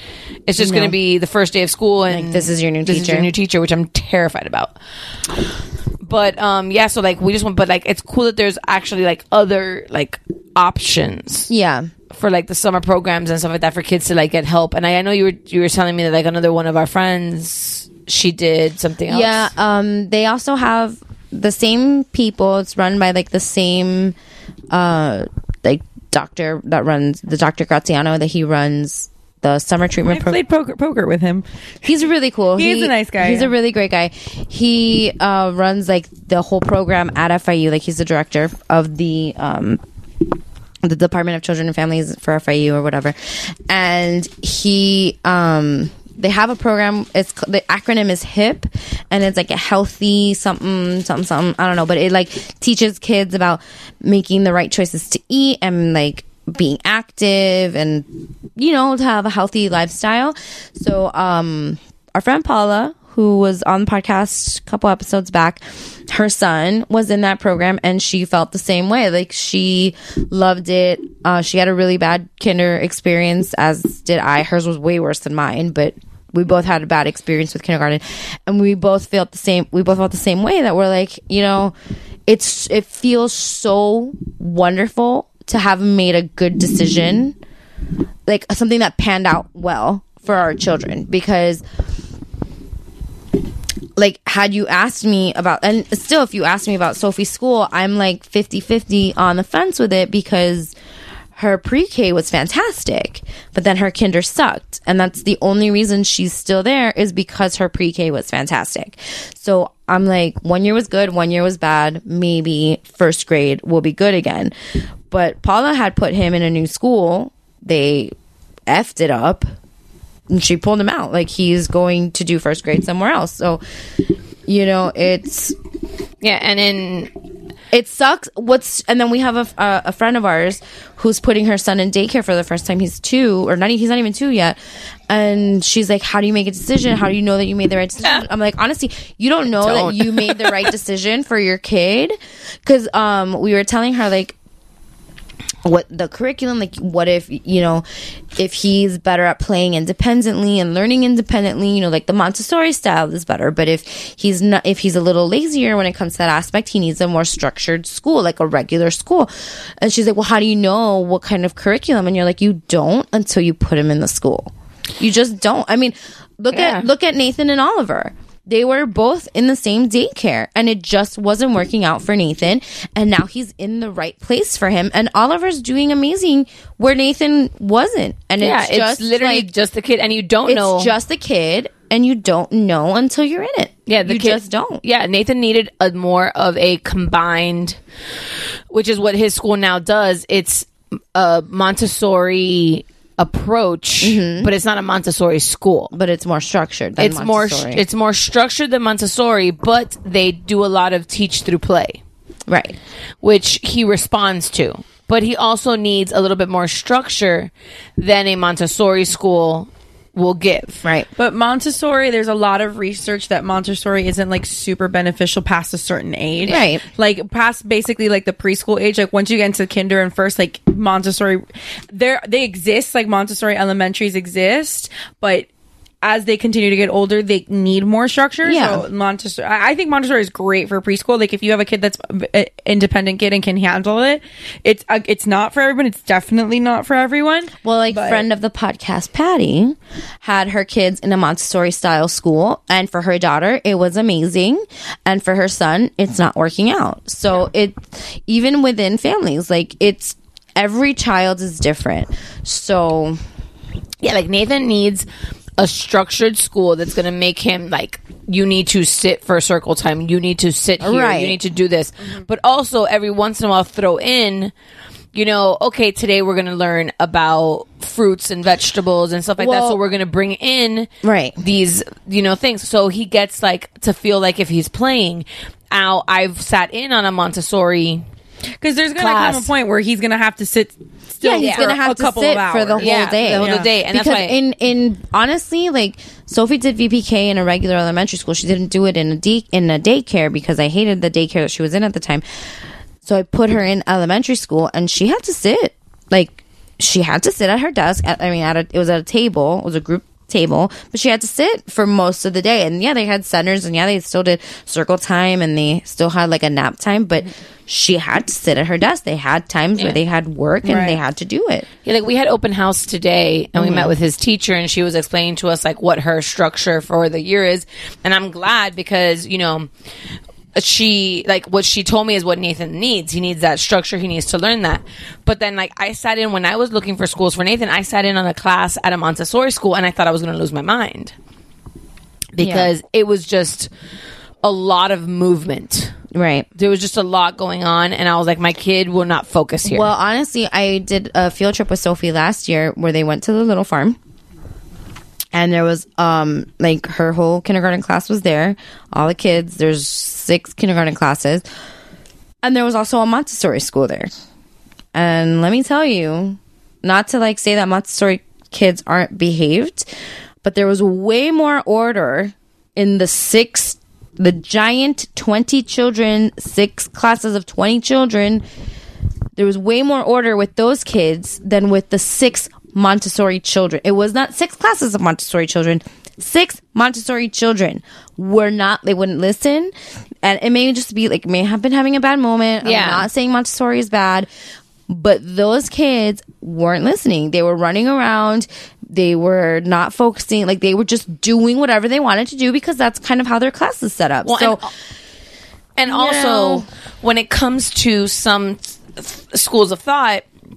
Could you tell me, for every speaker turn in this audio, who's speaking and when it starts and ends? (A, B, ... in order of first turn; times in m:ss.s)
0:00.5-0:04.8 A
0:00.6-0:01.0 B
0:02.1-0:03.3 B
0:06.0-0:11.5 A
0:11.5-0:11.9 B
0:12.1-0:19.5 A
0:19.1-0:24.2 B
0:24.7-0:30.4 B
0:30.1-0:31.4 C
0:31.8-0:39.8 B
0:32.6-0:33.5 C
0:40.8-0:43.1 B
0:43.7-1:21.7 B
1:22.3-1:27.4 B
1:28.3-1:31.6 B
1:34.0-1:40.7 B
1:41.4-1:54.5 B
1:55.1-1:58.1 B
1:58.7-1:59.4 B
2:00.3-2:03.6 B
2:04.4-2:05.6 B
2:06.2-2:07.1 A
2:07.7-2:24.3 B
2:19.6-2:20.7 A
2:25.6-2:27.8 B
2:28.4-2:59.5 B
2:46.5-2:46.9 A
2:58.4-3:00.9 A
3:00.4-3:04.8 B
3:03.9-3:07.8 A
3:08.7-3:15.9 A
3:14.0-3:14.5 B
3:15.9-3:17.8 B
3:17.0-3:22.0 A
3:22.5-3:22.8 B
3:23.2-3:30.8 A
3:30.8-3:31.1 B
3:31.2-3:45.5 C
3:36.5-3:36.8 B
3:46.0-3:58.2 C
3:48.4-3:48.8 B
3:57.6-4:13.2 B
4:14.0-4:15.1 A
4:15.6-4:24.5 A
4:20.8-4:21.4 B
4:25.1-4:38.0 A
4:29.4-4:29.8 B
4:31.0-4:31.4 B
4:38.6-4:43.7 C
4:39.0-4:39.5 A
4:41.2-4:52.2 B
4:41.4-4:41.7 A
4:42.8-4:44.4 A
4:53.0-5:11.7 B
5:10.6-5:11.0 C
5:11.8-5:19.7 A
5:13.6-5:13.9 B
5:20.5-5:31.1 A
5:32.3-5:33.7 A
5:32.4-5:32.7 B
5:34.4-5:35.9 A
5:36.1-5:36.5 B
5:36.6-5:39.9 A
5:39.6-5:44.0 B
5:45.3-5:51.4 B
5:52.4-5:54.1 B
5:54.9-5:59.9 B
6:00.4-6:08.4 B
6:09.4-6:24.3 B
6:22.6-6:23.1 A
6:24.9-6:34.6 B
6:34.2-6:34.7 A
6:35.8-6:40.2 A
6:35.9-6:36.7 B